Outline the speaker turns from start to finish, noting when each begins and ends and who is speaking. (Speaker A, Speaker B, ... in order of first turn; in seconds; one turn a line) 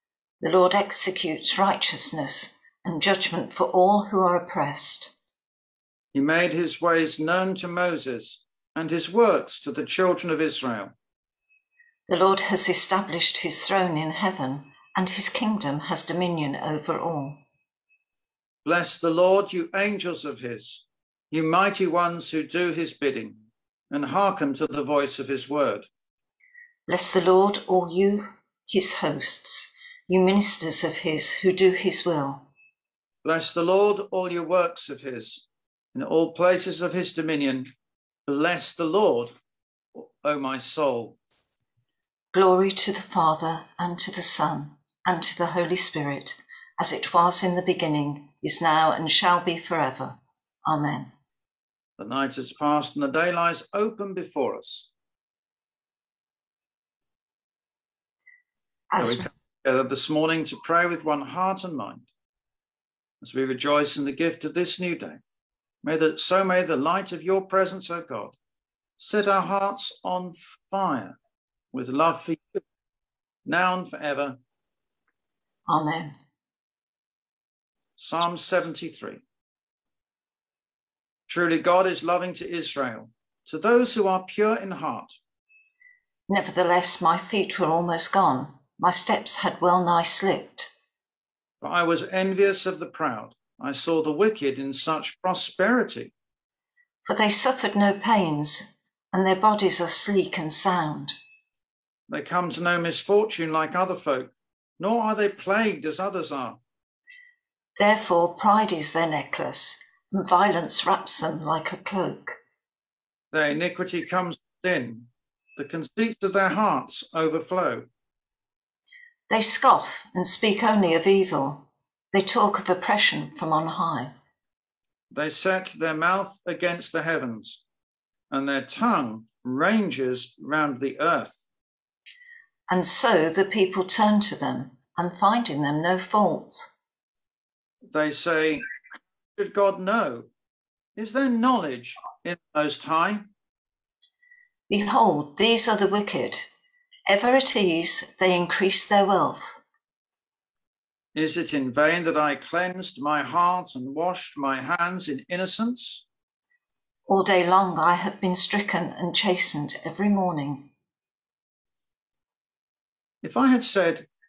Speaker A: 0.4-5.2
Speaker B: 6.1-10.9
Speaker A: 12.1-17.4
Speaker B: 18.6-25.9
Speaker A: 26.9-32.5
Speaker B: 33.2-37.7
Speaker B: 38.3-39.3
Speaker B: 39.9-41.2
Speaker A: 42.3-51.1
Speaker B: 52.0-54.9
Speaker A: 58.9-59.2
Speaker B: 59.0-62.1
Speaker B: 63.2-65.2
Speaker B: 65.8-68.3
Speaker B: 69.0-71.2
Speaker B: 71.7-72.6
Speaker B: 73.5-74.4
Speaker A: 75.7-76.1
Speaker B: 78.0-79.2
Speaker B: 81.3-85.2
Speaker A: 86.3-90.7
Speaker B: 91.6-96.1
Speaker A: 97.0-101.2
Speaker B: 102.1-106.6
Speaker A: 107.8-112.4
Speaker B: 113.3-117.9
Speaker A: 119.3-124.1
Speaker B: 125.1-127.6
Speaker B: 128.3-131.4
Speaker A: 132.7-136.7
Speaker B: 137.9-138.6
Speaker B: 139.3-140.3
Speaker B: 140.9-143.3
Speaker A: 144.7-146.5
Speaker A: 147.1-149.6
Speaker B: 151.1-156.1
Speaker A: 157.1-160.7
Speaker B: 163.2-164.1